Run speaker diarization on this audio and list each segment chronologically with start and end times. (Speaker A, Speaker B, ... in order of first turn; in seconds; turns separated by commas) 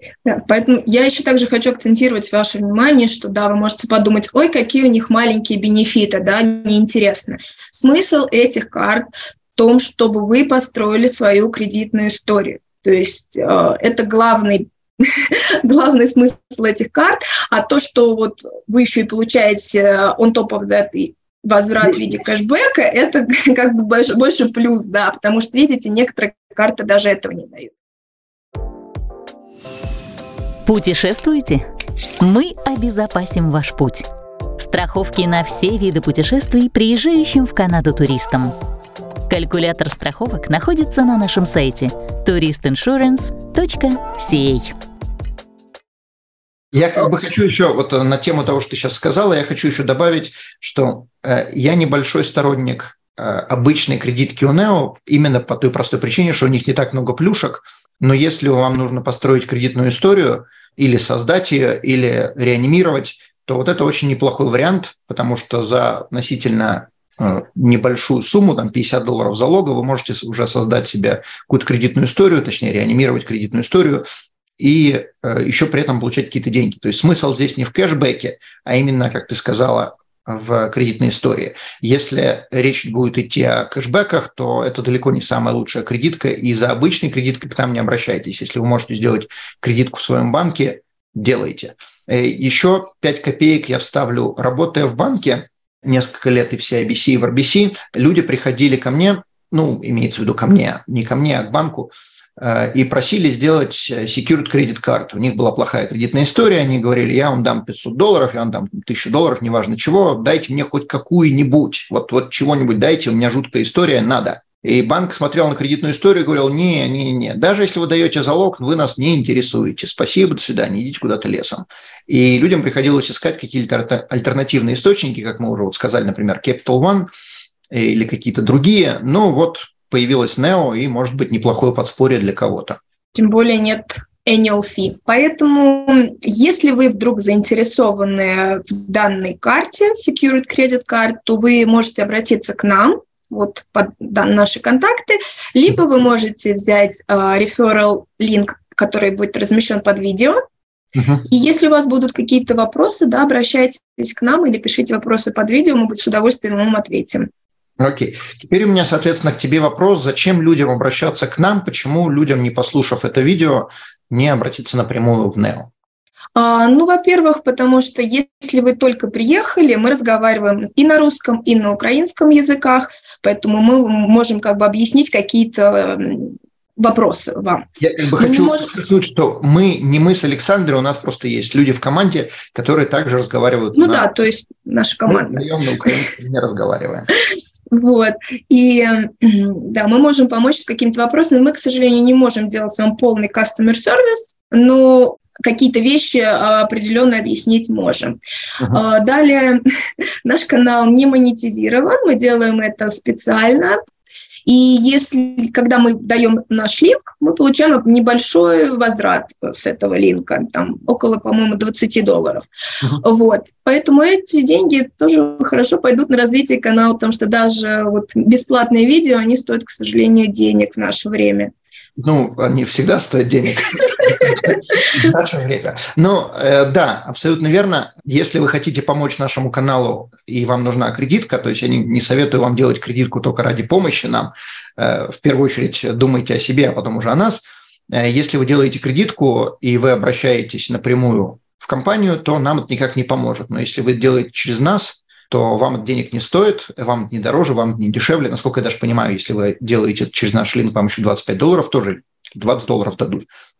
Speaker A: 0.2-14.7, Speaker A: 15.2-27.8, Speaker B: 30.6-31.6, Speaker B: 32.2-34.1, Speaker B: 34.6-38.5, Speaker B: 39.3-44.7, Speaker C: 46.7-74.0, Speaker C: 74.6-127.1, Speaker C: 127.7-132.8, Speaker A: 133.2-150.4, Speaker C: 150.9-151.2, Speaker A: 151.3-157.3, Speaker C: 157.8-165.7, Speaker A: 166.3-177.7, Speaker C: 177.8-184.1, Speaker A: 178.2-178.7, Speaker A: 183.7-186.0, Speaker C: 185.1-187.1, Speaker A: 187.7-198.2, Speaker A: 198.7-199.6, Speaker A: 200.2-203.8, Speaker A: 204.5-212.5, Speaker A: 213.0-221.5, Speaker C: 222.0-253.3